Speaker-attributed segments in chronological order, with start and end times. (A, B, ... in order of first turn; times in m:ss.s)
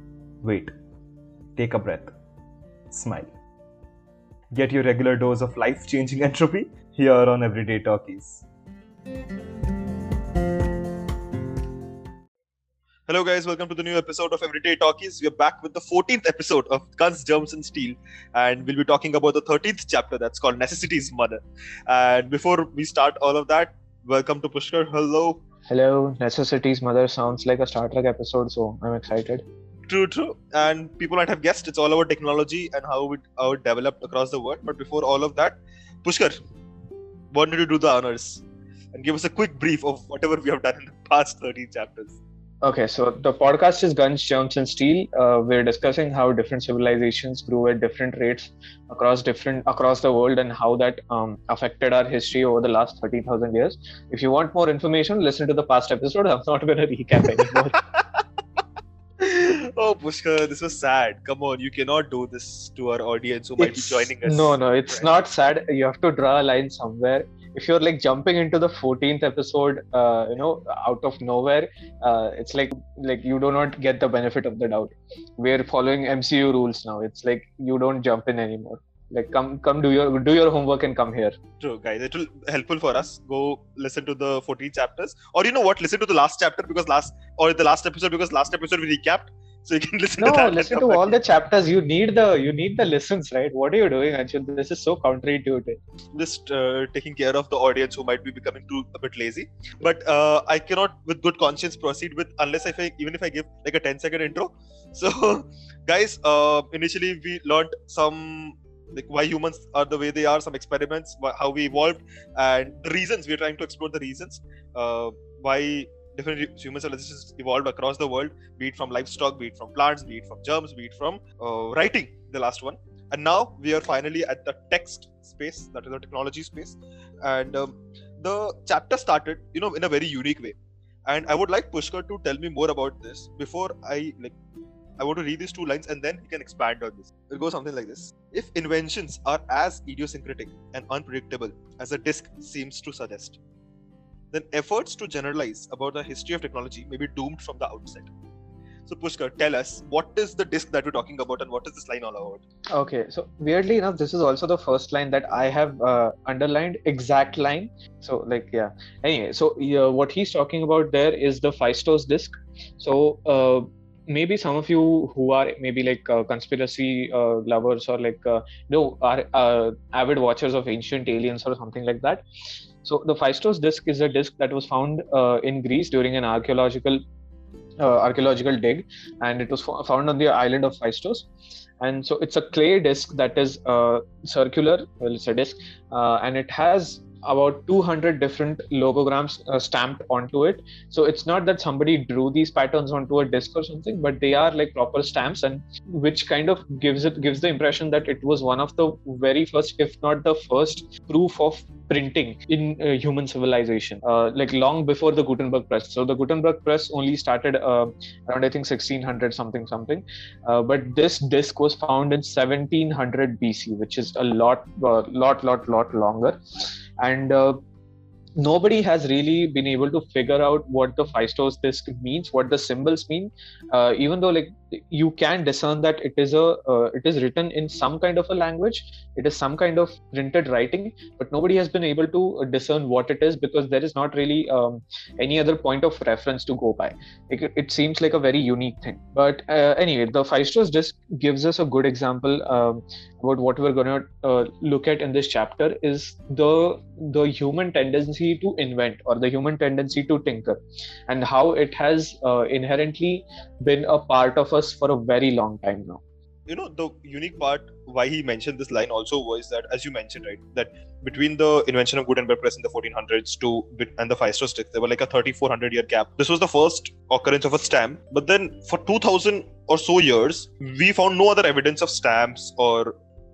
0:00.4-0:00.7 A
0:01.6-0:02.1 A
0:02.9-0:03.3 A
0:04.5-0:08.4 A
0:13.1-0:25.4 B
0:25.7-0:29.4 C
0:29.9-0:36.4 B
0:37.3-0:42.2 B
0:42.6-0:57.8 C
0:59.2-1:05.2 B
1:03.6-1:21.3 C
1:21.6-1:31.2 B
1:30.2-1:35.8 C
1:36.1-2:14.3 B
2:15.0-2:23.4 B
2:24.3-2:28.1 B
2:28.8-2:32.4 B
2:32.7-2:52.2 C
2:52.8-2:57.0 C
2:57.8-3:01.3 C
3:01.8-3:37.6 C
3:38.4-4:16.0 C
4:16.5-4:33.0 B